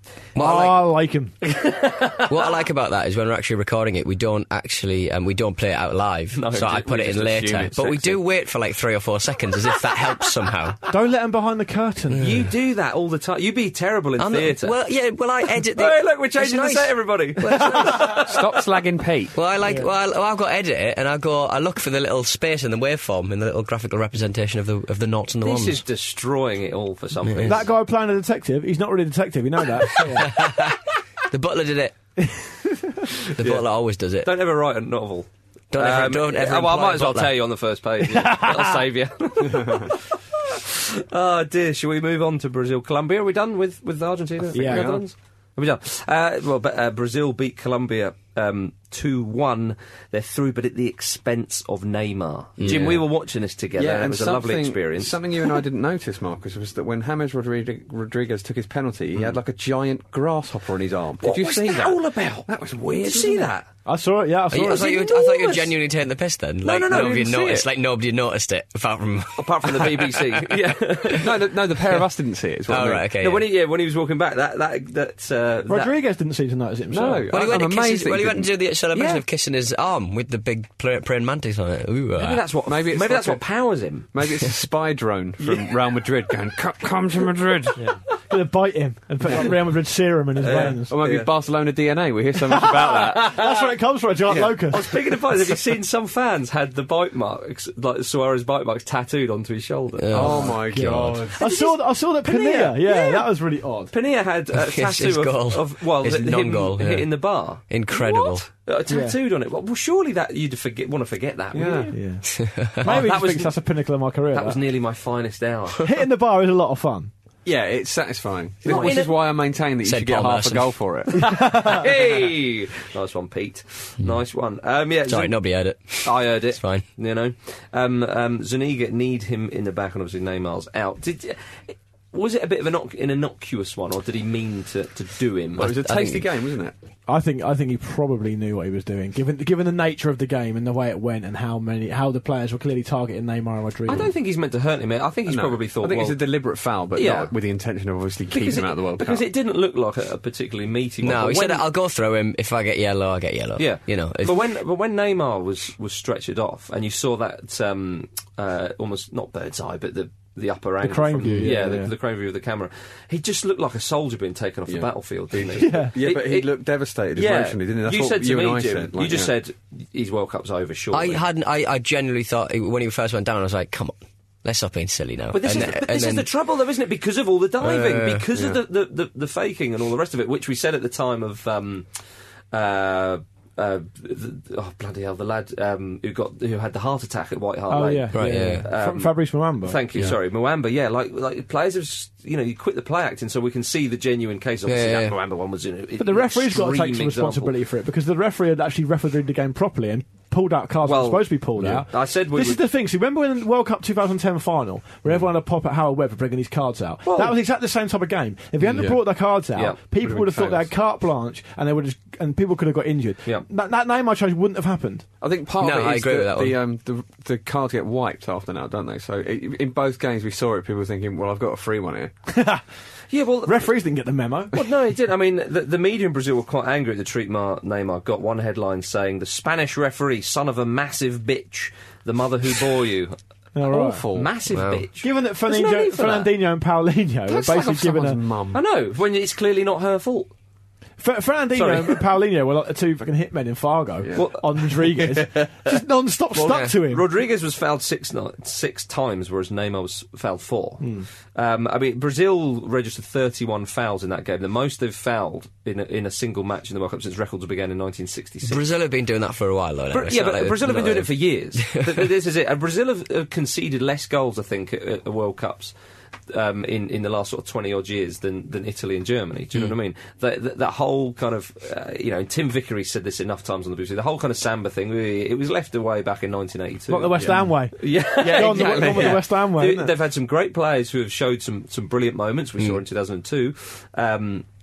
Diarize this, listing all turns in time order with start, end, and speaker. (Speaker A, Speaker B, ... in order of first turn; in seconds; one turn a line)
Speaker A: 0.3-0.7
Speaker B: 0.4-1.3
Speaker C: 1.4-2.6
Speaker A: 2.3-10.8
Speaker C: 6.3-6.9
Speaker D: 6.5-8.2
Speaker B: 10.9-12.4
Speaker A: 12.1-12.4
Speaker C: 12.2-14.8
Speaker A: 14.2-18.4
Speaker C: 15.7-18.5
Speaker D: 18.3-19.4
Speaker A: 19.3-25.8
Speaker B: 19.6-19.9
Speaker C: 25.4-27.7
Speaker A: 27.2-27.6
Speaker B: 27.4-30.4
Speaker A: 30.2-32.0
Speaker A: 33.3-34.3
Speaker C: 33.4-33.7
Speaker C: 34.2-55.6
Speaker A: 35.7-37.5
Speaker B: 38.1-38.8
Speaker D: 39.5-39.9
Speaker B: 44.5-45.0
Speaker D: 44.5-45.0
Speaker A: 52.6-53.0
Speaker D: 52.6-53.0
Speaker D: 53.8-63.5
Speaker C: 61.2-63.7
Speaker B: 63.8-65.1
Speaker A: 64.5-71.2
Speaker C: 64.7-65.8
Speaker C: 66.6-67.7
Speaker C: 69.3-71.4
Speaker D: 71.2-73.1
Speaker A: 72.7-73.5
Speaker C: 73.2-75.9
Speaker B: 75.7-77.3
Speaker D: 76.9-78.5
Speaker A: 77.3-82.4
Speaker C: 78.9-79.2
Speaker C: 82.2-84.1
Speaker D: 82.7-87.8
Speaker B: 87.8-91.0
Speaker C: 90.4-91.3
Speaker D: 90.4-93.5
Speaker B: 92.5-94.9
Speaker C: 92.6-93.6
Speaker D: 94.3-95.6
Speaker C: 94.3-100.5
Speaker A: 100.0-101.2
Speaker D: 100.1-101.4
Speaker B: 100.4-103.9
Speaker C: 101.4-103.3
Speaker C: 103.9-112.0
Speaker A: 104.5-108.5
Speaker B: 108.9-109.2
Speaker D: 111.5-111.9
Speaker B: 111.9-114.6
Speaker A: 112.4-112.7
Speaker C: 112.8-113.6
Speaker C: 114.3-115.9
Speaker B: 115.8-117.1
Speaker D: 117.4-121.4
Speaker C: 118.6-119.2
Speaker A: 119.8-120.8
Speaker B: 121.2-121.8
Speaker C: 121.2-125.4
Speaker A: 125.1-126.8
Speaker C: 126.0-135.7
Speaker A: 135.6-136.4
Speaker D: 135.6-136.7
Speaker B: 137.1-144.1
Speaker C: 143.8-146.3
Speaker D: 145.3-149.2
Speaker C: 146.9-147.3
Speaker C: 148.3-151.7
Speaker A: 151.0-154.4
Speaker C: 153.6-166.6
Speaker B: 160.8-161.9
Speaker A: 161.2-161.5
Speaker D: 164.7-169.3
Speaker B: 165.5-165.9
Speaker C: 167.1-171.2
Speaker A: 170.9-176.3
Speaker C: 175.3-182.0
Speaker A: 177.6-178.5
Speaker C: 182.5-197.5
Speaker B: 187.7-189.8
Speaker A: 188.1-188.7
Speaker A: 194.7-195.2
Speaker B: 196.0-215.1
Speaker C: 200.8-202.6
Speaker D: 201.6-201.8
Speaker C: 207.0-207.4
Speaker D: 208.6-209.0
Speaker D: 210.0-210.7
Speaker D: 215.2-222.1
Speaker A: 215.6-216.6
Speaker B: 222.3-222.6
Speaker C: 223.1-223.7
Speaker B: 223.4-224.6
Speaker C: 224.5-233.2
Speaker B: 233.5-234.0
Speaker D: 233.7-234.3
Speaker C: 234.1-236.3
Speaker A: 234.5-234.8
Speaker B: 235.0-238.2
Speaker D: 237.3-238.6
Speaker C: 238.5-240.3
Speaker B: 241.0-247.1
Speaker C: 241.5-242.0
Speaker C: 244.1-245.7
Speaker C: 246.3-258.6
Speaker B: 250.8-251.1
Speaker A: 258.4-262.0
Speaker C: 259.9-265.7
Speaker C: 266.3-284.5
Speaker B: 276.9-279.9
Speaker D: 277.1-277.5
Speaker D: 278.2-279.3